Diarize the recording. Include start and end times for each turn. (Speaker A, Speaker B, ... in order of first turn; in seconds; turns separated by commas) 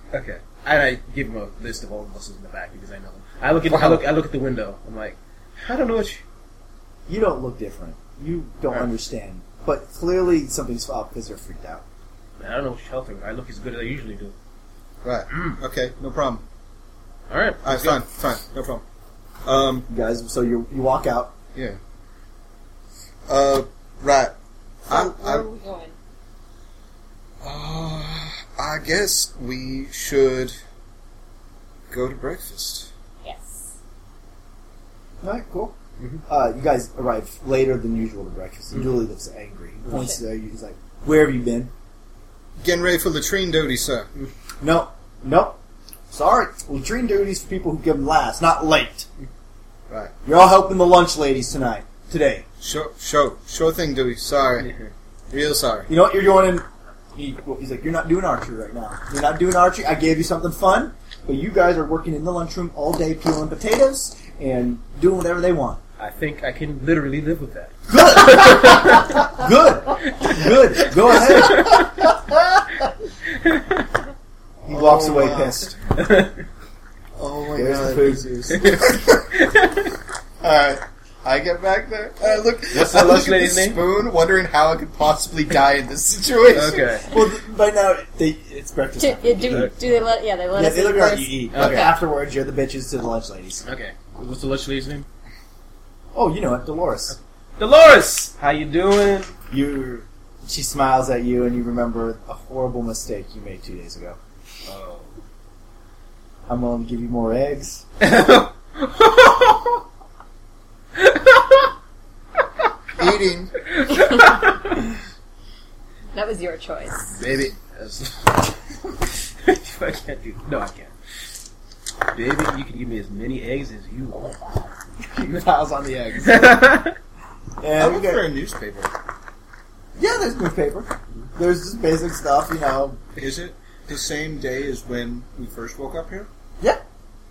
Speaker A: 0.1-6.2, Speaker B: 3.7-4.0, Speaker C: 7.1-11.8, Speaker A: 12.4-14.3, Speaker B: 15.0-16.4, Speaker A: 15.3-15.6, Speaker A: 17.3-18.0, Speaker B: 17.6-18.8, Speaker B: 19.4-19.9, Speaker C: 19.9-21.3, Speaker B: 21.5-21.8, Speaker B: 23.3-24.4, Speaker B: 24.9-25.5, Speaker D: 24.9-25.9, Speaker B: 27.4-30.6, Speaker B: 31.9-32.9, Speaker D: 33.2-33.8, Speaker C: 35.2-35.8, Speaker C: 36.3-41.7, Speaker A: 38.7-39.0, Speaker B: 42.6-44.1, Speaker C: 44.6-45.6, Speaker C: 46.1-49.1, Speaker C: 50.2-52.5, Speaker B: 52.6-54.7, Speaker A: 54.6-54.9, Speaker B: 55.3-55.9, Speaker C: 55.9-65.8, Speaker A: 66.0-69.2, Speaker C: 67.9-71.8, Speaker A: 70.1-71.8, Speaker A: 73.3-73.9, Speaker C: 74.6-75.8, Speaker B: 74.7-75.6, Speaker A: 76.0-76.5, Speaker B: 77.2-79.2, Speaker C: 77.6-78.7, Speaker A: 78.5-80.0, Speaker B: 80.4-87.1, Speaker A: 82.7-83.8, Speaker A: 86.5-87.1, Speaker C: 87.1-90.0, Speaker D: 89.0-91.8, Speaker C: 90.5-93.6, Speaker A: 91.5-92.0, Speaker A: 93.6-95.1, Speaker C: 96.1-97.2, Speaker A: 97.6-99.3, Speaker C: 99.5-104.2, Speaker A: 104.7-105.2, Speaker C: 106.5-107.8, Speaker A: 108.0-109.8, Speaker A: 111.0-111.7, Speaker B: 113.0-113.6, Speaker A: 113.7-114.8, Speaker D: 116.1-117.2, Speaker A: 117.2-118.6, Speaker A: 119.4-120.9, Speaker A: 122.1-124.7, Speaker C: 125.1-126.4, Speaker A: 126.2-127.0, Speaker C: 127.6-128.3, Speaker B: 127.8-128.9, Speaker C: 130.0-133.0, Speaker B: 133.2-136.3